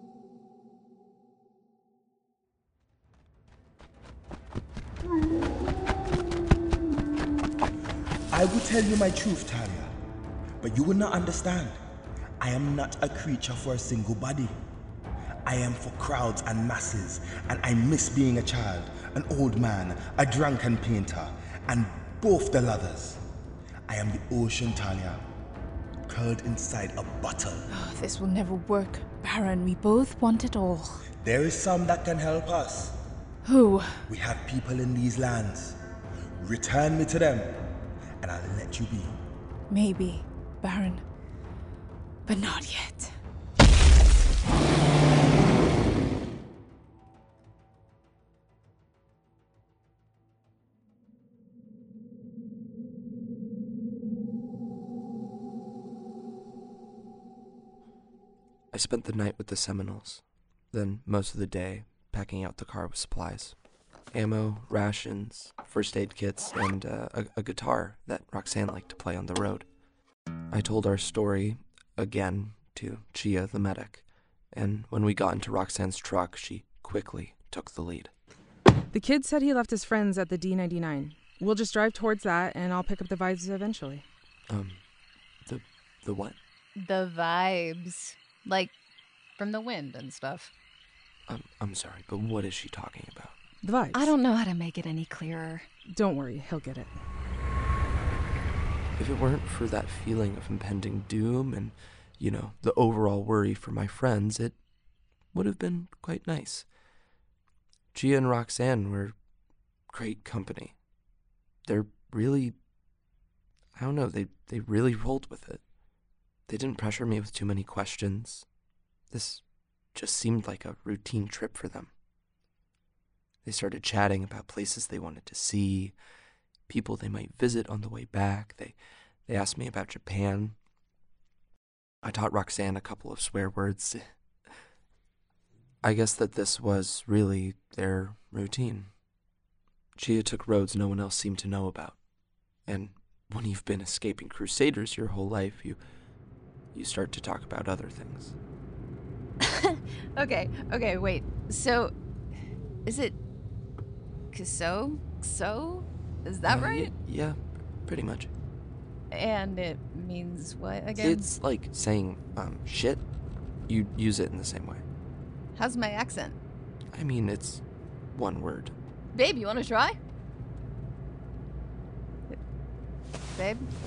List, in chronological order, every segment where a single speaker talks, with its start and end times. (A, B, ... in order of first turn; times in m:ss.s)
0:08.3-0:09.9 A
0:10.6-0:11.8 A
0:12.4-0:14.5 A
0:15.4-0:23.2 A
0:23.9-0:25.2 A
0:26.1-0:27.6 A
0:27.7-0:31.0 B
0:31.2-0:33.0 A
0:33.4-0:34.0 B
0:34.1-0:35.8 A
0:36.4-0:37.7 A
0:38.2-0:39.2 A
0:39.7-0:41.0 B
0:42.2-0:43.2 B
0:58.7-1:03.5 C
1:04.1-1:09.6 C
1:10.5-1:18.1 C
1:18.9-1:24.0 D
1:24.5-1:24.8 C
1:25.4-1:26.4 C
1:26.8-1:28.7 E
1:29.4-1:30.5 E
1:31.3-1:33.4 C
1:33.6-1:34.1 D
1:33.9-1:35.7 E
1:35.9-1:37.0 D
1:39.0-1:44.6 C
1:45.3-1:46.7 C
1:47.9-1:49.1 C
1:49.9-1:50.8 C
1:51.6-1:52.6 C
1:53.7-1:55.6 C
1:56.5-1:58.4 C
1:59.1-1:59.4 C
1:59.9-2:01.9 C
2:03.4-2:05.9 C
2:06.7-2:08.7 C
2:09.2-2:10.6 C
2:12.0-2:14.1 C
2:15.8-2:18.9 C
2:20.0-2:22.0 C
2:22.6-2:25.8 C
2:26.7-2:28.3 C
2:29.4-2:31.9 E
2:32.9-2:33.2 E
2:34.3-2:36.9 E
2:36.4-2:38.3 C
2:39.1-2:41.3 E
2:41.0-2:43.0 C
2:43.7-2:44.8 C
2:45.5-2:46.4 E
2:46.9-2:47.6 C
2:48.1-2:48.7 C
2:49.1-2:50.0 E
2:53.4-2:53.7 E